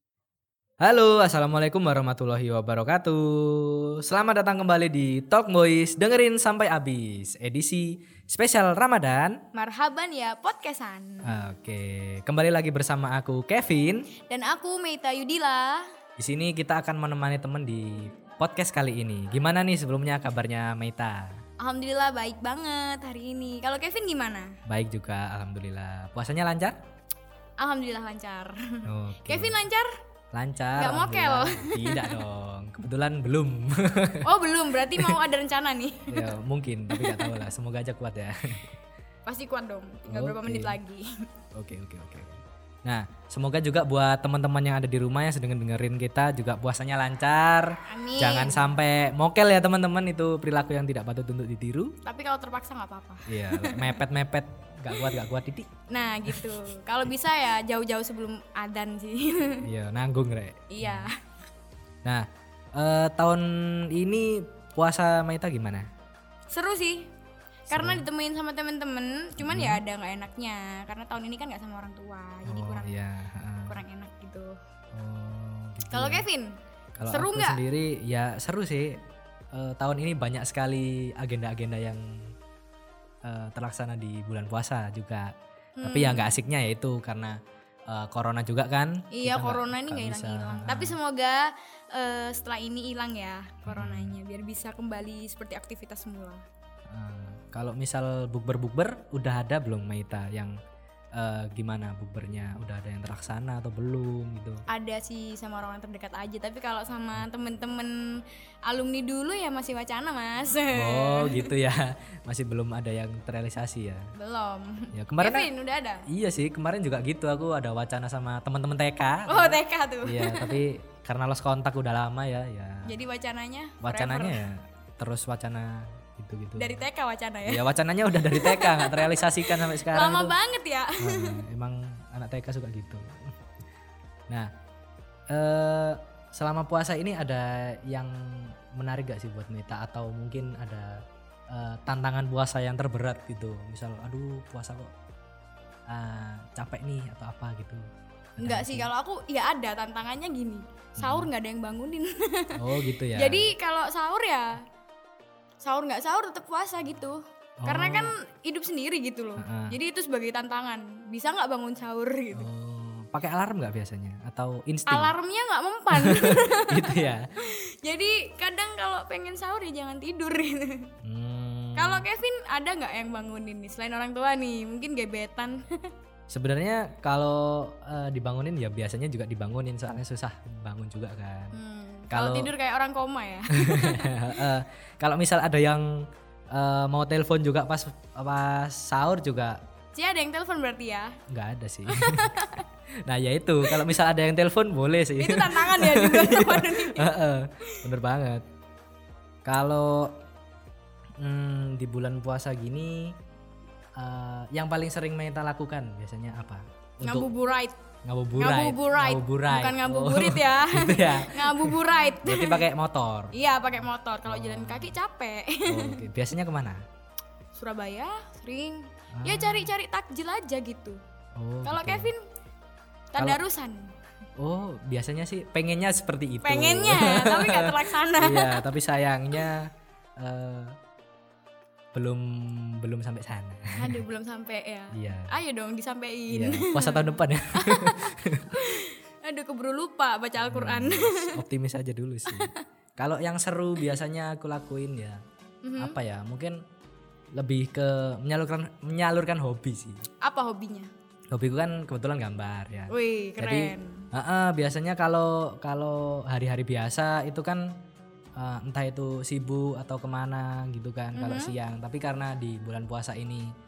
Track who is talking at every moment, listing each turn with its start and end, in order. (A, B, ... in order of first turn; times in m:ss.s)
0:00.8-0:09.4 A
0:09.5-0:11.3 B
0:11.2-0:14.1 A
0:14.3-0:15.8 B
0:16.2-0:21.4 A
0:21.6-0:24.6 B
0:24.7-0:26.8 A
0:27.6-0:29.9 B
0:28.8-0:29.6 A
0:30.3-0:34.3 A
0:30.8-0:32.2 B
0:34.2-0:36.4 B
0:36.1-0:38.7 A
0:36.9-0:37.5 B
0:39.3-0:41.1 B
0:40.1-0:40.8 A
0:41.6-0:51.9 A
0:47.9-0:48.7 B
0:52.0-0:54.0 B
0:53.3-0:56.6 A
0:55.9-0:59.7 B
0:59.6-1:01.1 A
1:00.7-1:01.2 B
1:02.0-1:05.9 A
1:06.5-1:07.1 B
1:07.7-1:13.0 B
1:07.7-1:08.0 A
1:09.4-1:09.8 A
1:12.4-1:13.8 A
1:13.7-1:14.6 B
1:14.9-1:16.2 A
1:15.9-1:16.6 B
1:17.0-1:18.9 A
1:17.1-1:17.6 B
1:19.5-1:22.1 A
1:23.2-1:25.3 A
1:25.8-1:26.4 B
1:25.8-1:27.4 A
1:27.9-1:31.0 A
1:29.1-1:36.4 B
1:33.7-1:34.1 A
1:36.9-1:40.6 A
1:41.2-1:44.6 A
1:44.7-1:51.5 B
1:50.7-1:54.0 A
1:54.2-1:56.0 B
1:54.9-1:55.5 A
1:56.1-2:02.9 A
1:59.3-2:00.6 B
2:02.8-2:04.4 B
2:03.8-2:06.8 A
2:06.6-2:07.6 B
2:07.4-2:10.3 A
2:08.2-2:11.4 B
2:11.0-2:13.1 A
2:15.3-2:21.0 A
2:21.5-2:24.9 A
2:25.9-2:27.8 A
2:28.4-2:28.9 A
2:28.4-2:34.6 B
2:31.0-2:31.3 A
2:32.6-2:33.5 A
2:35.6-2:42.5 B
2:37.6-2:38.1 A
2:39.4-2:39.8 A
2:42.3-2:45.1 A
2:44.9-2:50.9 B
2:46.0-2:47.3 A
2:51.0-2:52.0 A
2:51.8-2:55.9 B
2:56.3-3:01.6 A
3:01.6-3:04.4 B
3:02.1-3:02.5 A
3:03.6-3:05.9 A
3:06.5-3:09.6 A
3:10.0-3:11.2 B
3:11.3-3:12.4 A
3:11.9-3:12.7 B
3:13.1-3:18.4 A
3:13.6-3:13.9 B
3:15.2-3:17.1 B
3:19.5-3:20.1 A
3:21.2-3:23.1 A
3:24.0-3:27.3 A
3:27.0-3:27.8 B
3:28.1-3:33.3 A
3:28.4-3:32.7 B
3:33.3-3:36.0 B
3:34.3-3:35.0 A
3:35.7-3:36.8 A
3:37.6-3:41.0 B
3:39.2-3:39.7 A
3:41.4-3:42.1 A
3:41.6-3:42.2 B
3:43.1-3:43.9 B
3:44.4-3:50.8 A
3:46.4-3:48.6 B
3:51.9-3:54.0 A
3:53.8-4:01.4 B
3:54.9-3:55.4 A
3:56.3-3:58.6 A
4:00.4-4:05.2 A
4:02.3-4:02.6 B
4:05.6-4:06.0 B
4:05.8-4:06.6 A
4:07.4-4:10.0 A
4:10.2-4:10.9 B
4:11.3-4:17.6 A
4:12.9-4:14.1 B
4:18.4-4:23.5 A
4:21.2-4:21.5 B